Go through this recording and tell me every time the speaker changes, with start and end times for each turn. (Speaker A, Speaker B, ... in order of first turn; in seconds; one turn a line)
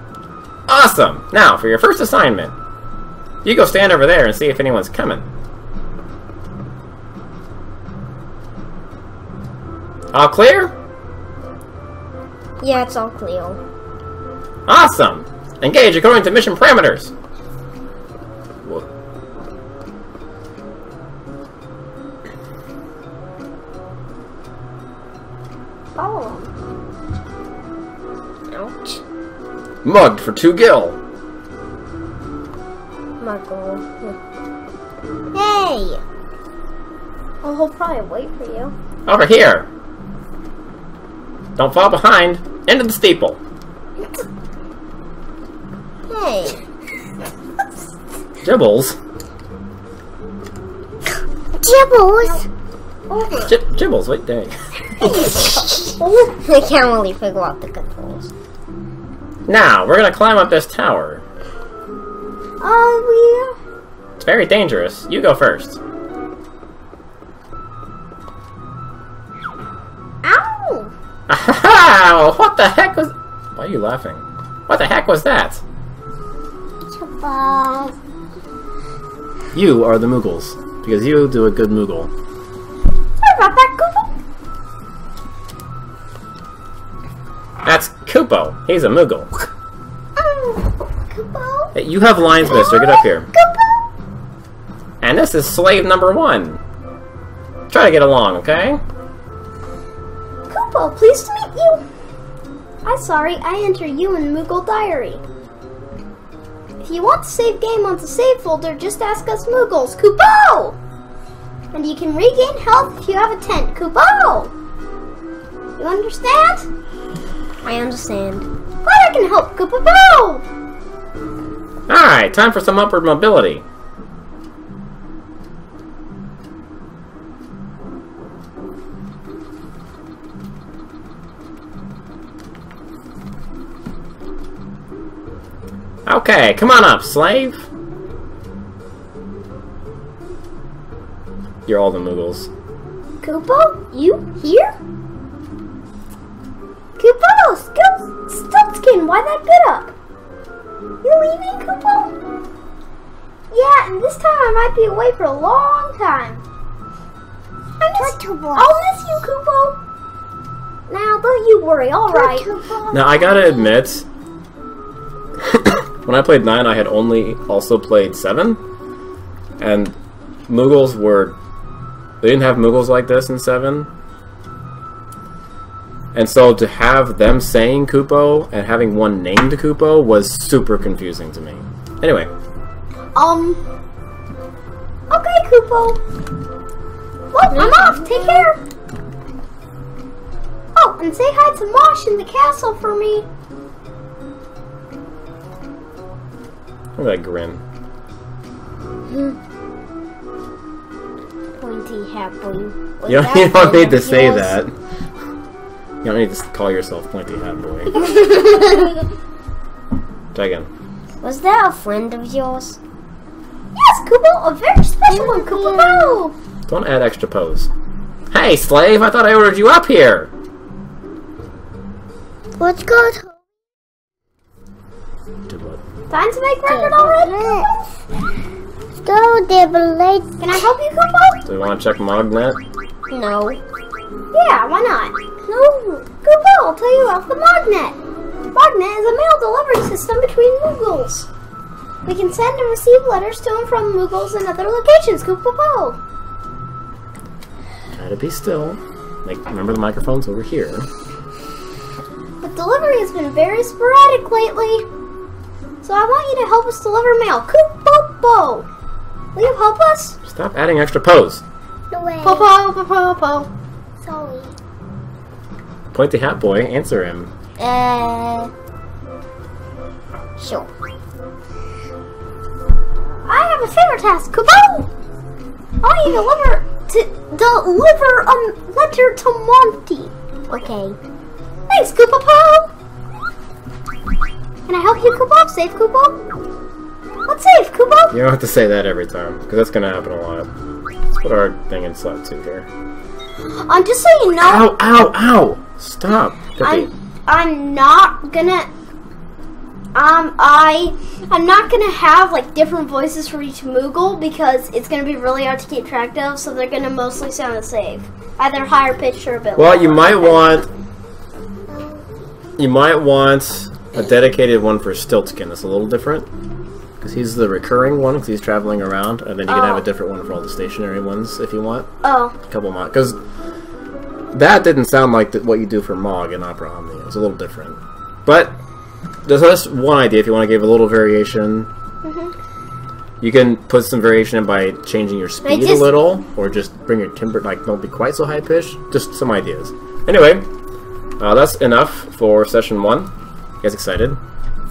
Speaker A: 0.7-2.5
Speaker A: 3.4-5.3
Speaker A: 10.1-10.7
Speaker B: 12.6-13.6
Speaker A: 14.7-17.1
Speaker A: 18.6-18.9
Speaker C: 26.0-26.5
Speaker B: 28.5-29.0
Speaker A: 29.8-31.0
Speaker B: 33.2-34.2
Speaker B: 35.3-36.0
Speaker C: 37.4-38.7
Speaker A: 39.1-39.7
Speaker A: 41.6-43.4
Speaker C: 44.0-44.2
Speaker B: 46.1-46.6
Speaker A: 48.4-49.0
Speaker B: 51.6-52.5
Speaker B: 53.1-53.5
Speaker A: 53.4-54.5
Speaker C: 55.0-56.4
Speaker B: 55.0-58.3
Speaker A: 59.5-61.2
Speaker C: 62.6-63.6
Speaker A: 64.2-65.8
Speaker C: 70.2-70.9
Speaker A: 71.3-75.6
Speaker B: 76.9-78.0
Speaker A: 79.5-82.1
Speaker C: 83.2-84.2
Speaker A: 87.6-89.5
Speaker C: 90.2-91.7
Speaker A: 91.8-93.3
Speaker C: 92.5-93.8
Speaker A: 95.0-96.6
Speaker A: 97.7-98.8
Speaker C: 100.5-101.8
Speaker C: 102.8-105.2
Speaker C: 106.8-110.8
Speaker C: 111.7-114.5
Speaker C: 115.8-116.7
Speaker B: 117.6-118.5
Speaker C: 118.8-120.5
Speaker A: 121.9-123.6
Speaker A: 136.1-137.7
Speaker A: 141.7-142.5
Speaker C: 143.2-144.8
Speaker C: 147.0-149.9
Speaker C: 151.0-152.1
Speaker C: 153.5-156.4
Speaker C: 157.8-159.8
Speaker B: 157.9-158.8
Speaker C: 160.9-162.5
Speaker B: 162.1-163.5
Speaker A: 162.9-164.1
Speaker A: 165.4-168.6
Speaker A: 169.6-170.0
Speaker A: 170.5-171.4
Speaker A: 172.2-173.9
Speaker A: 176.1-182.3
Speaker C: 183.2-183.6
Speaker C: 185.1-186.0
Speaker C: 187.3-188.6
Speaker B: 187.5-188.5
Speaker C: 190.8-193.3
Speaker A: 197.0-197.6
Speaker B: 199.1-199.4
Speaker B: 201.6-204.6
Speaker A: 203.1-204.7
Speaker A: 206.0-208.0
Speaker B: 208.0-209.0
Speaker A: 210.3-210.7
Speaker B: 211.2-212.8
Speaker C: 213.7-216.3
Speaker B: 215.1-216.2
Speaker A: 216.7-217.7
Speaker A: 218.3-220.3
Speaker B: 222.6-223.3
Speaker A: 225.5-225.8
Speaker C: 226.1-227.7
Speaker B: 226.7-227.7
Speaker B: 229.0-230.4
Speaker C: 230.4-231.4
Speaker A: 231.5-232.6
Speaker B: 233.1-233.6
Speaker C: 234.3-235.2
Speaker B: 235.5-236.0
Speaker C: 236.1-238.0
Speaker C: 238.5-241.3
Speaker C: 242.1-246.0
Speaker A: 247.9-250.9
Speaker C: 252.4-254.9
Speaker C: 255.8-258.7
Speaker C: 259.4-260.2
Speaker A: 260.2-261.4
Speaker B: 261.9-262.5
Speaker C: 262.2-263.5
Speaker B: 264.0-264.6
Speaker A: 265.9-267.3
Speaker B: 267.6-268.5
Speaker B: 270.4-270.7
Speaker C: 273.2-274.9
Speaker C: 275.8-280.1
Speaker B: 280.5-281.0
Speaker C: 281.7-282.7
Speaker C: 284.7-286.3
Speaker C: 287.3-288.2
Speaker A: 288.1-290.5
Speaker A: 291.1-292.7
Speaker C: 293.6-294.7
Speaker A: 294.4-296.9
Speaker C: 296.6-298.7
Speaker C: 299.9-310.4
Speaker A: 309.6-310.7
Speaker B: 311.7-312.0
Speaker A: 312.6-316.3
Speaker A: 317.0-321.9
Speaker C: 319.5-319.8
Speaker C: 322.0-322.4
Speaker A: 322.5-323.2
Speaker A: 324.3-328.6
Speaker A: 329.2-331.7
Speaker C: 332.0-332.3
Speaker A: 333.2-340.5
Speaker B: 335.4-336.0
Speaker A: 341.2-343.1
Speaker A: 343.6-344.2